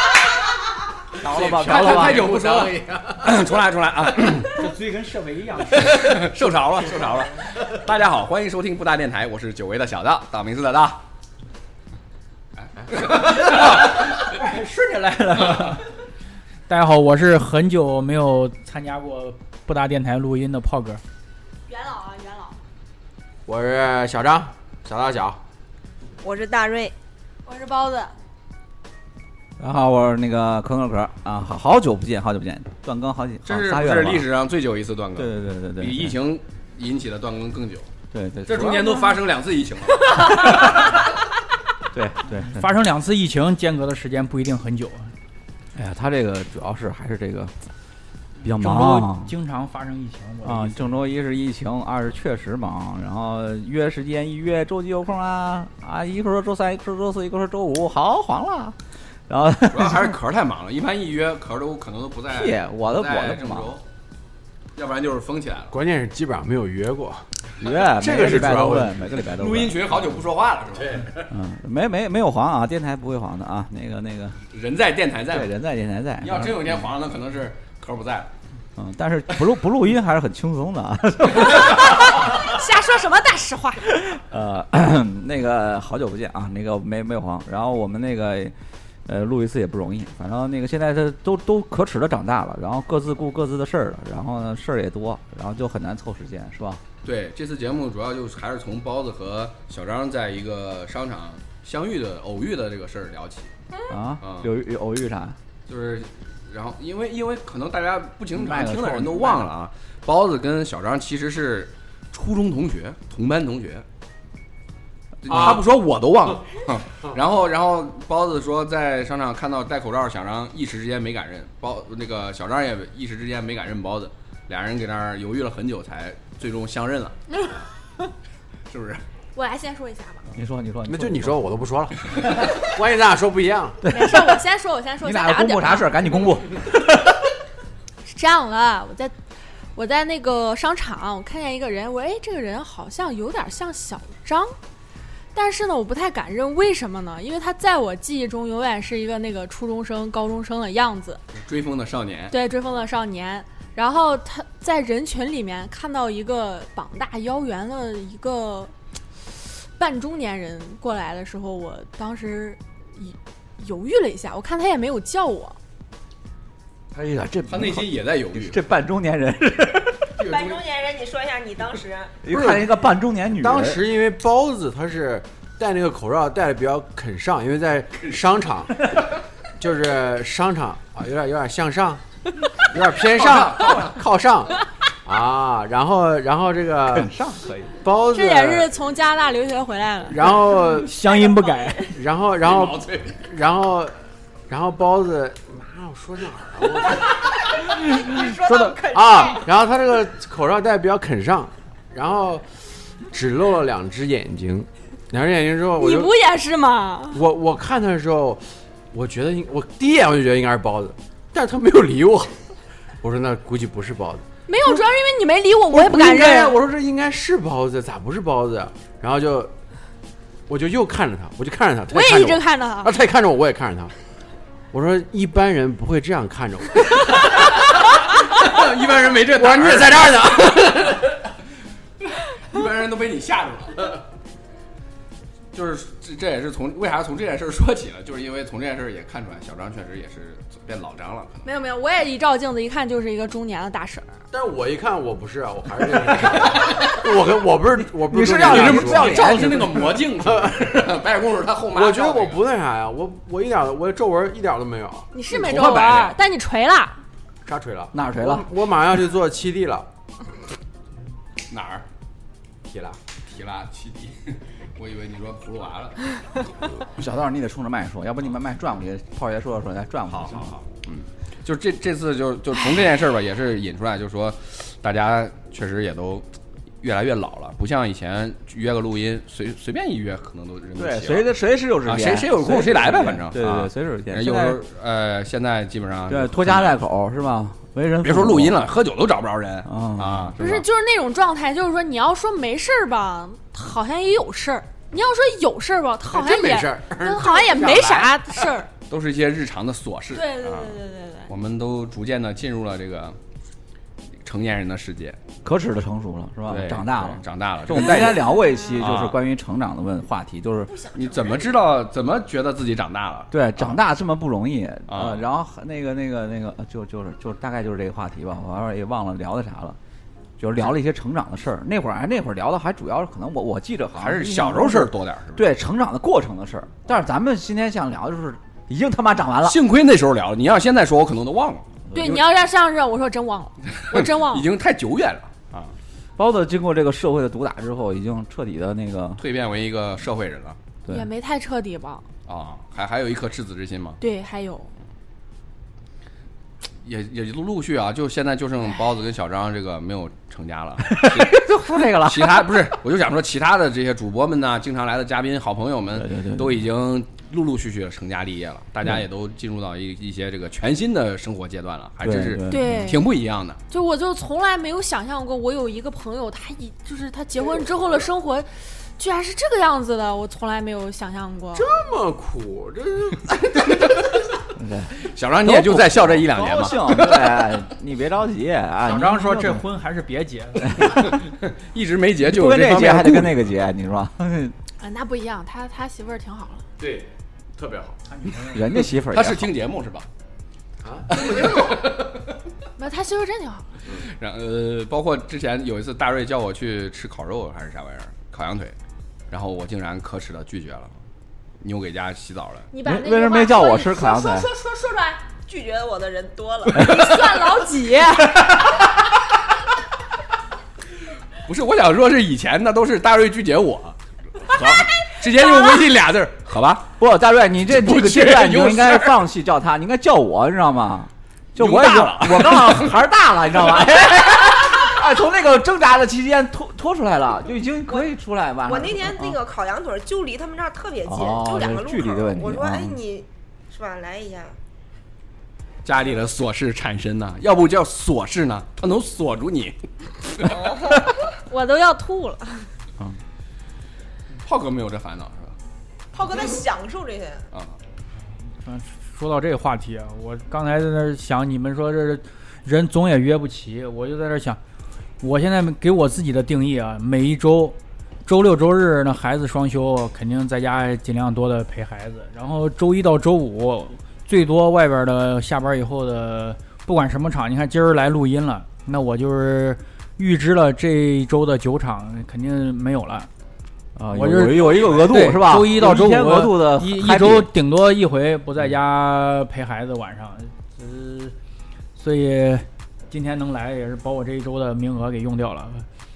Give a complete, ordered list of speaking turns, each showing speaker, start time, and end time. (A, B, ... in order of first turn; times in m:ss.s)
0:01.2-0:02.3 A
0:01.2-0:03.4 B
0:01.2-0:04.7 C
0:04.5-0:06.3 D
0:05.8-0:11.0 C
0:12.9-0:14.3 C
0:13.5-0:15.8 D
0:16.7-0:21.0 D
0:21.7-0:22.6 E
0:23.4-0:25.4 B
0:26.2-0:26.9 F
0:27.4-0:28.1 E
0:29.6-0:34.3 A
0:33.4-0:37.9 C
0:35.2-0:36.1 A
0:38.1-0:39.1 A
0:38.4-0:40.9 C
0:40.2-0:40.8 A
0:41.9-0:42.7 A
0:42.5-0:45.1 D
0:45.7-0:47.5 A
0:48.4-0:49.3 A
0:48.4-0:50.9 D
0:50.4-0:58.8 A
0:59.3-1:00.2 A
0:59.7-1:03.8 C
1:02.3-1:03.8 A
1:04.8-1:05.7 C
1:05.7-1:07.3 B
1:07.6-1:09.8 A
1:07.9-1:08.9 B
1:09.3-1:11.2 C
1:11.3-1:14.4 A
1:14.5-1:15.5 C
1:15.3-1:16.8 A
1:16.2-1:18.3 C
1:18.8-1:22.2 A
1:21.6-1:23.9 E
1:23.9-1:28.5 A
1:29.0-1:36.8 A
1:37.0-1:43.5 C
1:43.9-1:45.4 A
1:44.2-1:44.5 C
1:45.7-1:53.8 C
1:48.3-1:49.5 A
1:55.2-2:07.6 C
1:55.3-1:55.6 B
2:08.7-2:09.0 C
2:09.3-2:10.2 E
2:10.3-2:11.4 A
2:10.9-2:13.9 B
2:13.8-2:14.4 A
2:13.9-2:16.0 E
2:15.0-2:17.2 A
2:18.0-2:19.1 E
2:19.7-2:24.6 E
2:25.3-2:31.2 E
2:31.4-2:32.4 C
2:32.3-2:38.7 E
2:39.3-2:45.6 E
2:46.9-2:50.1 A
2:47.5-2:48.6 C
2:50.2-2:52.1 F
2:52.2-2:53.8 A
2:53.4-2:58.9 B
2:59.6-3:02.0 B
3:02.6-3:07.1 B
3:03.1-3:04.0 C
3:06.9-3:07.7 A
3:07.8-3:08.7 B
3:08.1-3:10.5 E
3:10.1-3:10.9 B
3:10.7-3:11.9 D
3:11.3-3:11.7 E
3:11.9-3:13.9 B
3:12.4-3:13.2 C
3:14.5-3:22.5 B
3:18.8-3:19.4 E
3:23.1-3:26.1 B
3:25.8-3:27.2 E
3:27.1-3:32.4 B
3:33.0-3:34.2 B
3:34.5-3:36.6 E
3:35.7-3:39.5 B
3:40.5-3:43.9 B
3:41.9-3:42.9 E
3:44.7-3:47.7 B
3:48.3-3:50.5 C
3:49.2-3:51.1 B
3:52.4-3:54.0 C
3:55.5-4:01.5 C
4:01.4-4:04.1 E
4:04.3-4:11.0 B
4:08.0-4:09.9 A
4:08.4-4:12.4 C
4:11.7-4:15.6 B
4:15.1-4:17.0 E
4:15.4-4:16.2 C
4:17.4-4:19.9 B
4:17.9-4:18.5 A
4:21.5-4:21.8 C
4:22.6-4:23.0 B
4:23.2-4:26.0 C
4:26.9-4:30.5 A
4:30.1-4:36.2 C
4:36.8-4:41.3 C
4:40.8-4:44.6 A
4:41.8-4:46.8 C
4:46.1-4:48.6 A
4:48.0-4:50.4 C
4:49.6-4:50.6 A
4:50.4-4:58.7 E
4:56.1-4:57.9 B
4:58.9-5:03.2 C
5:00.1-5:01.3 E
5:04.2-5:05.2 C
5:05.4-5:10.8 A
5:06.5-5:09.2 C
5:10.9-5:13.8 C
5:13.3-5:19.8 A
5:14.9-5:15.2 C
5:20.4-5:29.6 A
5:23.9-5:25.5 C
5:29.4-5:32.2 C
5:31.9-5:32.2 A
5:31.9-5:34.5 E
5:33.7-5:35.7 C
5:36.2-5:39.2 A
5:39.2-5:40.6 C
5:40.9-5:42.1 E
5:42.3-5:44.0 C
5:44.0-5:44.7 E
5:46.8-6:03.6 C
5:50.9-5:52.6 A
5:55.9-5:56.6 A
6:02.0-6:03.0 A
6:02.4-6:03.0 E
6:03.7-6:11.7 E
6:11.5-6:14.0 B
6:14.6-6:19.6 A
6:15.0-6:17.5 C
6:18.8-6:20.9 D
6:20.6-6:21.0 A
6:21.0-6:23.4 C
6:22.2-6:24.5 A
6:24.8-6:26.6 E
6:26.8-6:28.0 B
6:28.1-6:28.6 D
6:28.5-6:29.5 A
6:28.9-6:30.1 C
6:30.8-6:32.0 B
6:31.1-6:32.2 C
6:32.8-6:33.7 E
6:34.0-6:38.7 C
6:39.3-6:40.9 C
6:41.6-6:42.7 C
6:42.7-6:45.2 E
6:42.8-6:44.5 A
6:45.5-6:46.9 F
6:46.8-6:47.1 A
6:46.8-6:48.6 E
6:51.4-6:54.0 C
6:54.5-6:56.9 C
6:57.0-7:09.4 A
6:57.7-6:59.2 C
7:01.6-7:03.0 C
7:08.6-7:14.6 F
7:11.0-7:13.0 A
7:15.8-7:20.6 C
7:21.3-7:22.7 E
7:24.4-7:25.5 C
7:26.1-7:27.4 F
7:28.6-7:34.6 D
7:35.2-7:53.3 D
7:54.0-7:57.5 A
7:54.1-8:01.3 D
8:02.0-8:05.8 D